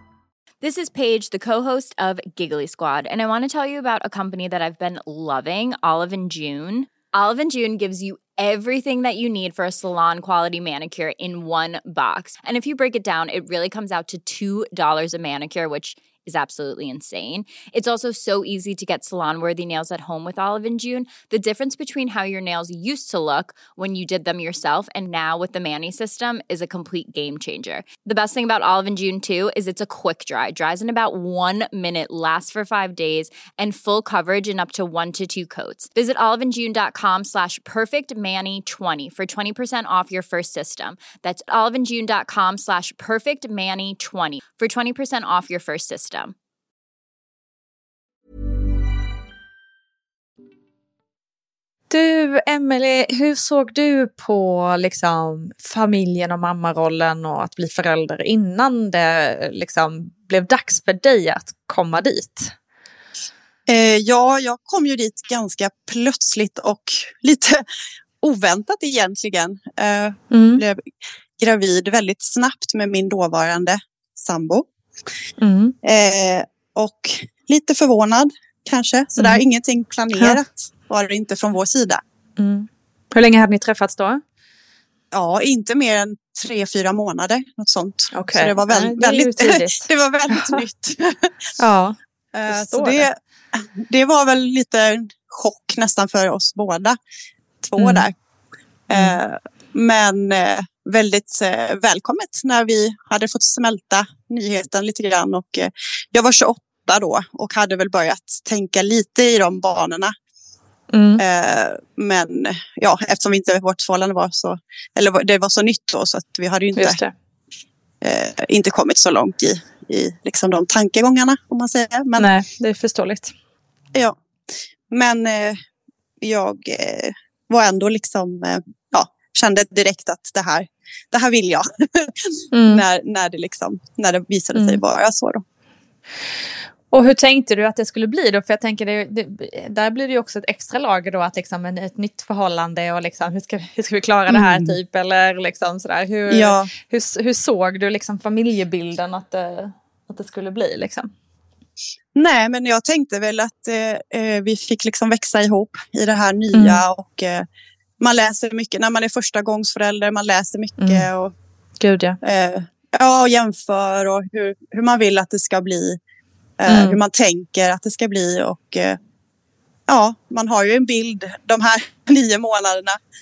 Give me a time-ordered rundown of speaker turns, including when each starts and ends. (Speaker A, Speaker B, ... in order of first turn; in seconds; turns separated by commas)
Speaker A: 0.6-46.3, Speaker B: 51.9-62.5, Speaker C: 63.7-67.6, Speaker C: 68.2-74.7, Speaker B: 70.3-70.6, Speaker B: 75.4-75.7, Speaker C: 75.8-82.0, Speaker B: 82.4-84.2, Speaker C: 85.1-91.3, Speaker B: 88.1-90.6, Speaker B: 91.6-92.0, Speaker C: 92.3-97.0, Speaker B: 92.5-93.1, Speaker C: 97.6-98.1, Speaker B: 97.8-98.0, Speaker C: 98.9-110.1, Speaker B: 98.9-99.2, Speaker B: 110.9-111.2, Speaker C: 111.2-117.0, Speaker B: 116.7-117.1, Speaker C: 118.0-122.3, Speaker B: 122.2-123.3, Speaker C: 124.9-125.6, Speaker C: 126.2-135.4, Speaker B: 132.5-132.8, Speaker B: 134.5-134.8, Speaker B: 136.9-151.1, Speaker C: 144.3-144.8, Speaker C: 146.3-146.7, Speaker C: 152.1-157.5, Speaker B: 156.5-156.8, Speaker C: 158.0-161.3, Speaker B: 160.8-161.1, Speaker B: 161.8-162.2, Speaker C: 162.2-166.0, Speaker C: 166.6-169.0, Speaker B: 166.7-167.0, Speaker C: 169.9-173.0